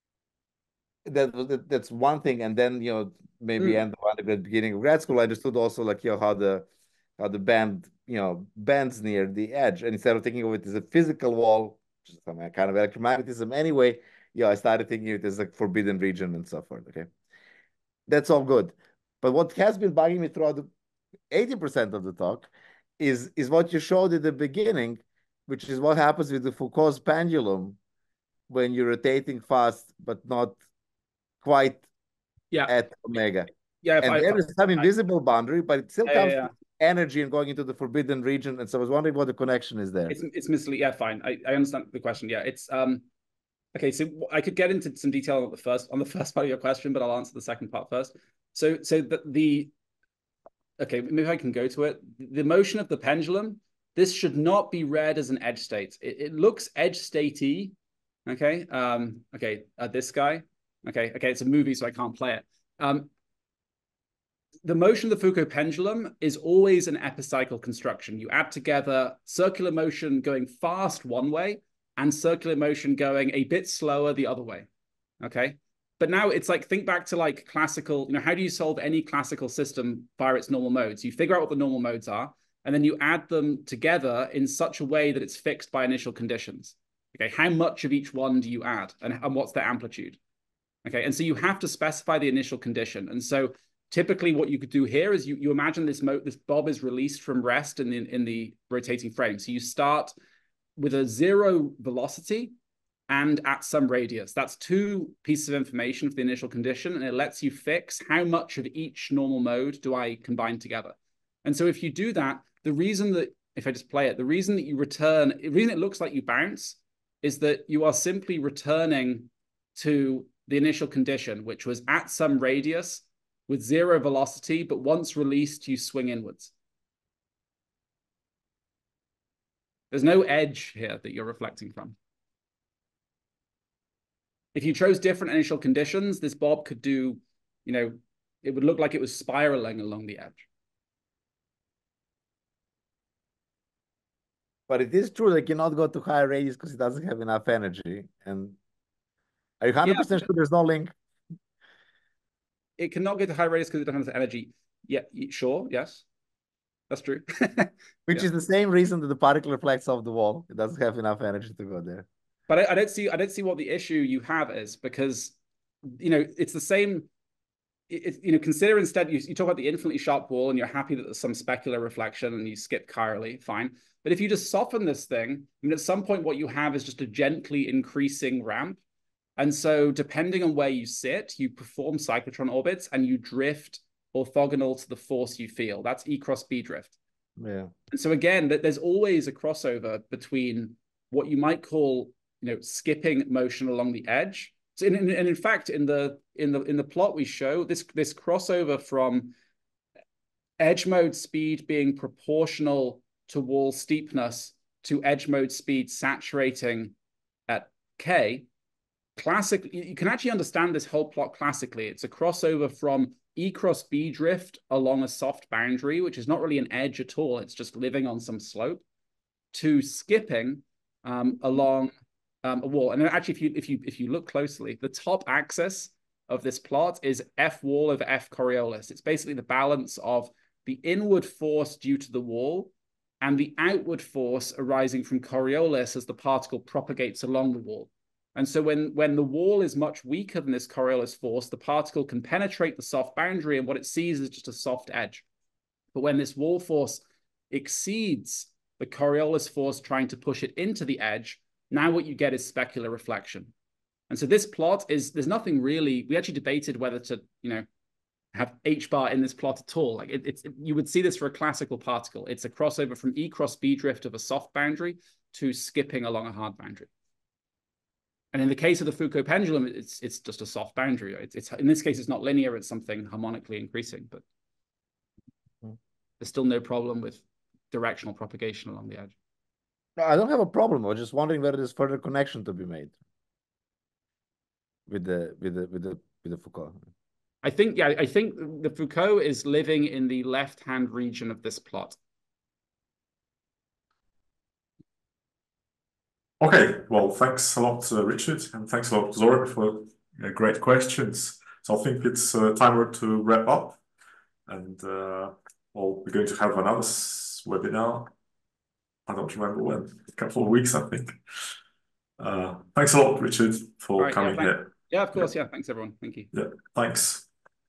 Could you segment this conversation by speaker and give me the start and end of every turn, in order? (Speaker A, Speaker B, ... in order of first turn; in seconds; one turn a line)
Speaker A: 1.0-6.7
Speaker A: 7.2-17.1
Speaker A: 18.1-20.7
Speaker A: 21.3-27.8
Speaker A: 28.5-30.6
Speaker A: 31.4-31.8
Speaker A: 32.7-33.5
Speaker B: 33.8-34.9
Speaker A: 34.0-40.1
Speaker B: 36.0-36.5
Speaker B: 40.1-43.0
Speaker B: 43.7-49.7
Speaker B: 50.8-57.7
Speaker B: 58.2-63.1
Speaker B: 64.6-74.7
Speaker B: 75.2-90.2
Speaker B: 90.8-100.1
Speaker B: 100.8-102.5
Speaker B: 103.1-126.5
Speaker B: 129.9-131.9
Speaker B: 134.5-140.4
Speaker A: 144.7-148.6
Speaker A: 149.6-150.9
Speaker B: 149.8-150.3
Speaker B: 152.8-156.0
Speaker B: 156.9-158.3
Speaker A: 158.1-162.1
Speaker B: 162.5-165.3
Speaker B: 165.9-167.1
Speaker B: 167.9-178.8
Speaker B: 179.4-186.9
Speaker A: 187.4-187.7
Speaker B: 187.9-199.3
Speaker B: 200.6-206.9
Speaker B: 207.5-208.4
Speaker B: 209.2-218.8
Speaker B: 219.5-245.2
Speaker B: 245.9-253.5
Speaker B: 254.1-257.6
Speaker B: 258.3-266.9
Speaker B: 268.3-274.2
Speaker B: 276.2-279.1
Speaker A: 280.0-282.9
Speaker A: 284.9-286.8
Speaker B: 287.4-292.0
Speaker C: 296.4-303.8
Speaker C: 304.5-308.1
Speaker C: 309.1-311.2
Speaker C: 312.2-314.7
Speaker B: 314.0-316.3
Speaker C: 316.3-317.3